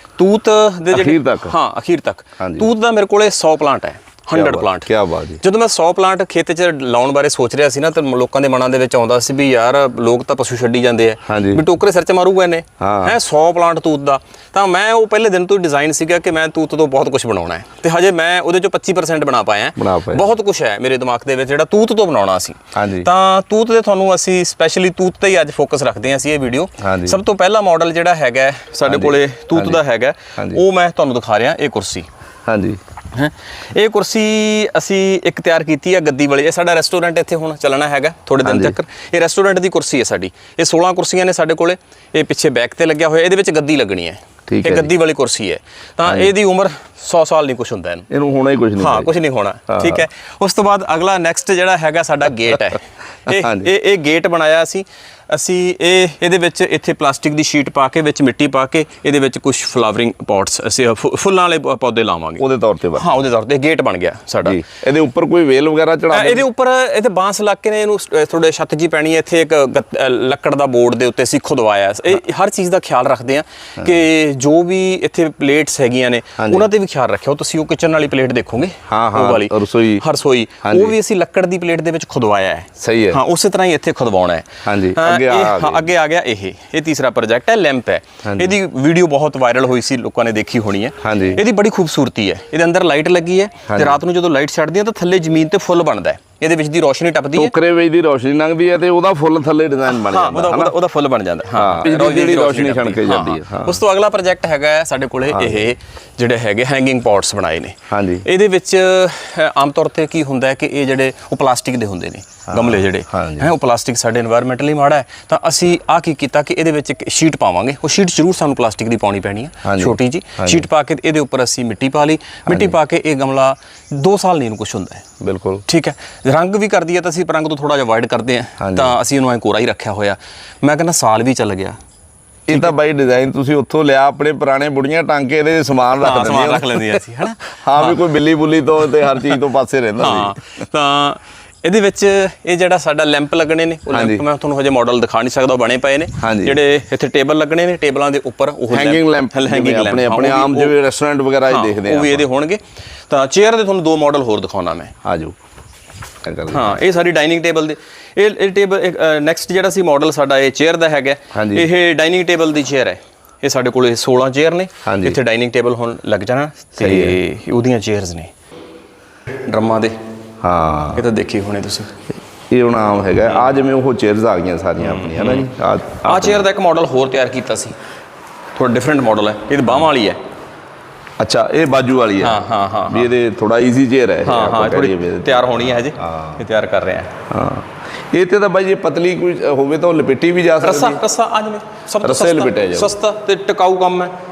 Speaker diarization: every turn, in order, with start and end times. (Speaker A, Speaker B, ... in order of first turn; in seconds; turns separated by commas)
Speaker A: 0.2-32.1, Speaker B: 0.9-1.6, Speaker B: 2.4-2.7, Speaker B: 4.3-5.4, Speaker B: 11.3-11.6, Speaker B: 12.8-13.2, Speaker B: 19.8-20.3, Speaker B: 22.7-23.1, Speaker B: 26.8-27.2, Speaker B: 28.9-29.8, Speaker B: 30.4-30.6, Speaker B: 32.5-32.8, Speaker A: 33.1-48.1, Speaker B: 38.4-38.8, Speaker B: 44.5-44.9, Speaker B: 46.0-46.3, Speaker B: 48.1-49.1, Speaker A: 48.8-62.4, Speaker B: 49.7-50.0, Speaker B: 53.2-53.7, Speaker B: 62.4-63.1, Speaker A: 62.9-64.6, Speaker B: 64.4-66.5, Speaker A: 66.1-97.5, Speaker B: 73.8-74.0, Speaker B: 76.4-76.7, Speaker B: 78.9-80.0, Speaker B: 80.6-81.0, Speaker B: 82.8-83.2, Speaker B: 84.6-85.9, Speaker B: 88.2-88.6, Speaker B: 91.0-91.4, Speaker B: 93.7-94.0, Speaker B: 97.3-100.8, Speaker A: 99.9-125.0, Speaker B: 101.5-103.8, Speaker B: 105.3-105.7, Speaker B: 107.9-108.2, Speaker B: 112.5-113.5, Speaker B: 119.6-120.7, Speaker B: 122.5-122.8, Speaker B: 125.2-125.6, Speaker A: 125.7-131.8, Speaker B: 128.6-129.0, Speaker B: 132.5-140.4, Speaker A: 136.0-138.0, Speaker A: 140.0-150.7, Speaker B: 143.9-144.2, Speaker B: 146.2-146.6, Speaker B: 148.7-152.2, Speaker A: 151.5-154.9, Speaker B: 155.0-155.3, Speaker B: 156.2-156.7, Speaker A: 156.5-168.3, Speaker B: 161.3-161.7, Speaker B: 164.8-165.2, Speaker B: 166.8-167.2, Speaker A: 169.4-169.9, Speaker B: 170.4-171.1, Speaker A: 170.9-171.9, Speaker B: 172.5-176.4, Speaker A: 173.3-173.5, Speaker A: 174.8-175.5, Speaker A: 176.0-177.8, Speaker A: 178.5-180.2, Speaker B: 181.2-182.4, Speaker A: 182.2-183.1, Speaker B: 182.9-186.4, Speaker A: 184.2-187.1, Speaker B: 187.3-191.0, Speaker A: 190.6-194.1, Speaker B: 192.0-192.9